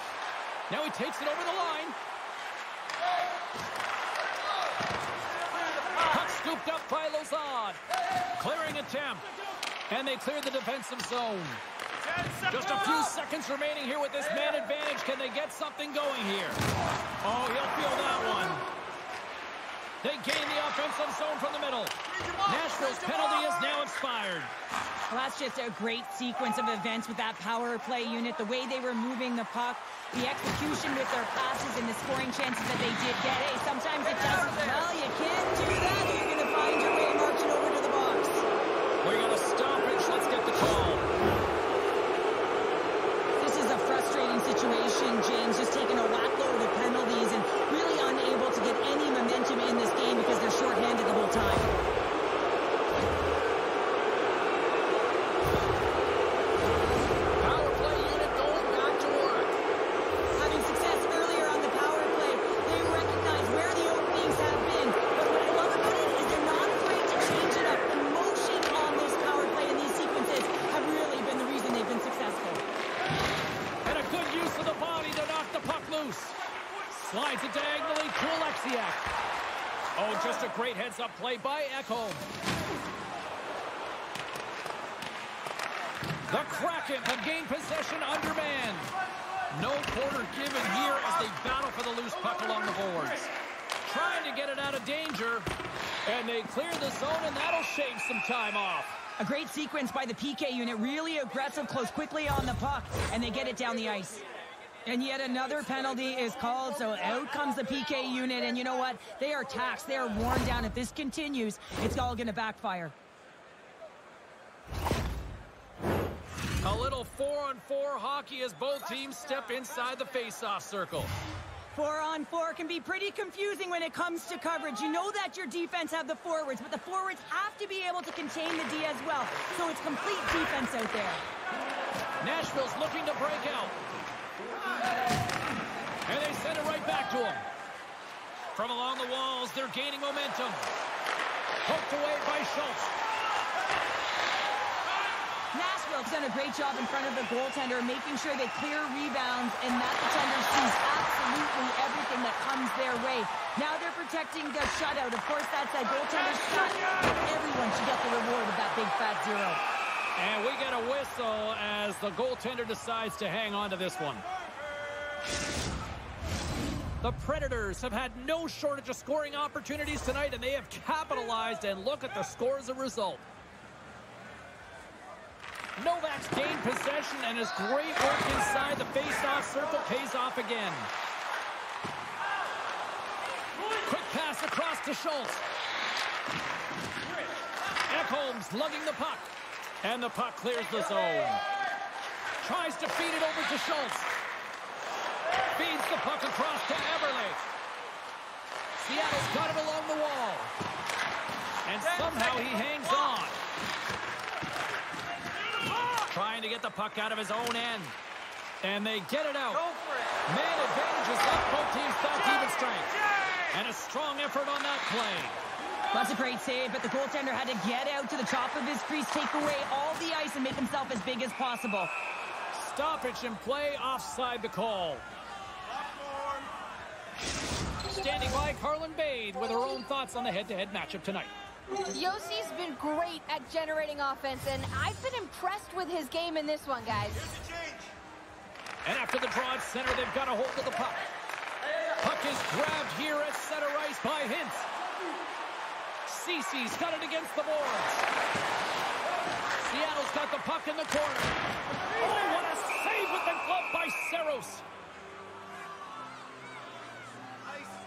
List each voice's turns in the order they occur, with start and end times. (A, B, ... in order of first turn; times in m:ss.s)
0:00.7-0:02.0 A
0:06.0-0:07.8 A
0:08.4-0:09.3 A
0:09.9-0:11.6 A
0:12.3-0:16.6 A
0:17.2-0:18.6 A
0:20.0-0:24.5 A
0:25.1-0:38.5 B
0:39.0-0:41.1 A
0:43.4-0:51.7 B
0:57.4-0:59.6 A
1:00.4-1:12.6 B
1:13.8-1:16.4 A
1:16.9-1:19.0 A
1:20.0-1:22.2 A
1:26.3-1:28.9 A
1:29.5-1:33.3 A
1:33.8-1:35.5 A
1:36.0-1:39.0 A
1:39.2-1:44.3 B
1:44.8-1:52.9 B
1:56.6-2:01.1 A
2:01.7-2:11.2 B
2:12.2-2:13.8 A
2:16.1-2:17.4 A
2:18.6-2:20.7 A
2:21.6-2:22.9 A
2:25.5-2:39.6 B
2:40.2-2:44.2 A
2:47.0-2:53.2 A
2:55.8-3:00.9 A
3:03.8-3:05.4 A
3:07.9-3:09.3 A
3:09.8-3:11.4 A
3:12.4-3:14.1 A
3:15.6-3:17.4 A
3:18.8-3:20.5 A
3:21.6-3:23.4 A
3:25.8-3:28.0 A
3:28.6-3:29.7 A
3:30.3-3:32.9 A
3:33.5-3:35.4 A
3:35.9-3:41.9 B
3:42.5-3:45.0 A
3:47.9-3:51.3 A
3:51.9-3:57.4 C
3:58.8-4:01.0 A
4:02.0-4:04.7 A
4:06.1-4:08.0 A
4:09.6-4:14.6 A